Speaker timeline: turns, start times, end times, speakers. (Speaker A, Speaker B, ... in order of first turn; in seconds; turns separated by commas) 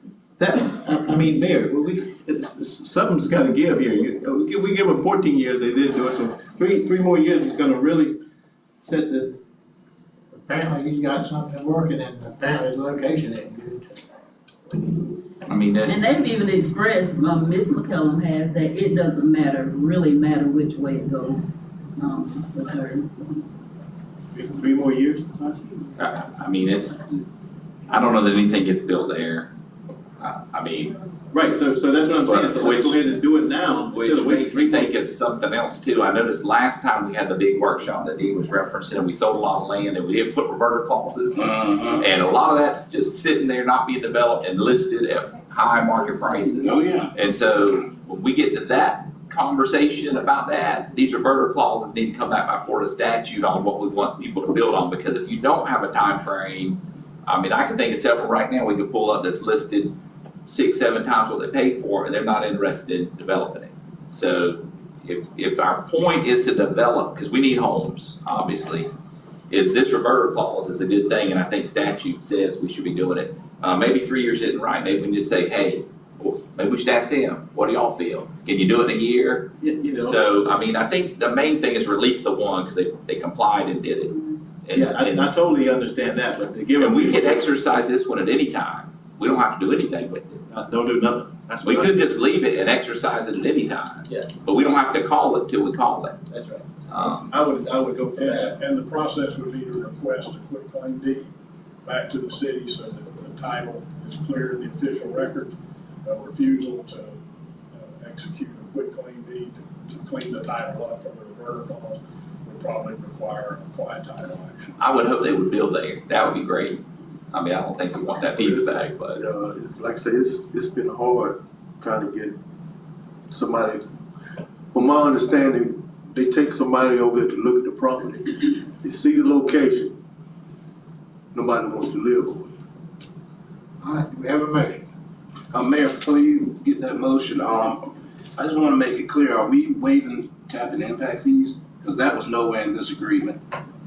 Speaker A: 0.4-8.2, Speaker A: 8.8-9.4, Speaker B: 10.3-14.0, Speaker C: 15.4-16.0, Speaker D: 15.8-21.4, Speaker D: 22.0-23.4, Speaker A: 24.3-25.8, Speaker C: 26.0-27.2, Speaker C: 27.9-29.5, Speaker C: 30.2-30.9, Speaker A: 31.3-34.9, Speaker C: 32.2-33.0, Speaker C: 33.9-59.9, Speaker E: 41.6-42.0, Speaker E: 46.6-47.1, Speaker C: 60.5-68.9, Speaker C: 69.5-85.3, Speaker A: 79.6-80.2, Speaker A: 84.7-87.5, Speaker C: 86.8-90.4, Speaker A: 90.5-92.0, Speaker C: 91.6-96.2, Speaker A: 94.1-94.4, Speaker A: 96.3-98.6, Speaker C: 96.9-97.3, Speaker F: 98.2-101.3, Speaker F: 101.8-107.2, Speaker F: 107.7-114.8, Speaker C: 114.8-119.2, Speaker G: 118.3-122.4, Speaker G: 123.3-123.9, Speaker G: 124.7-129.9, Speaker G: 131.3-132.5, Speaker B: 133.8-134.9, Speaker E: 135.5-137.8, Speaker E: 138.4-143.4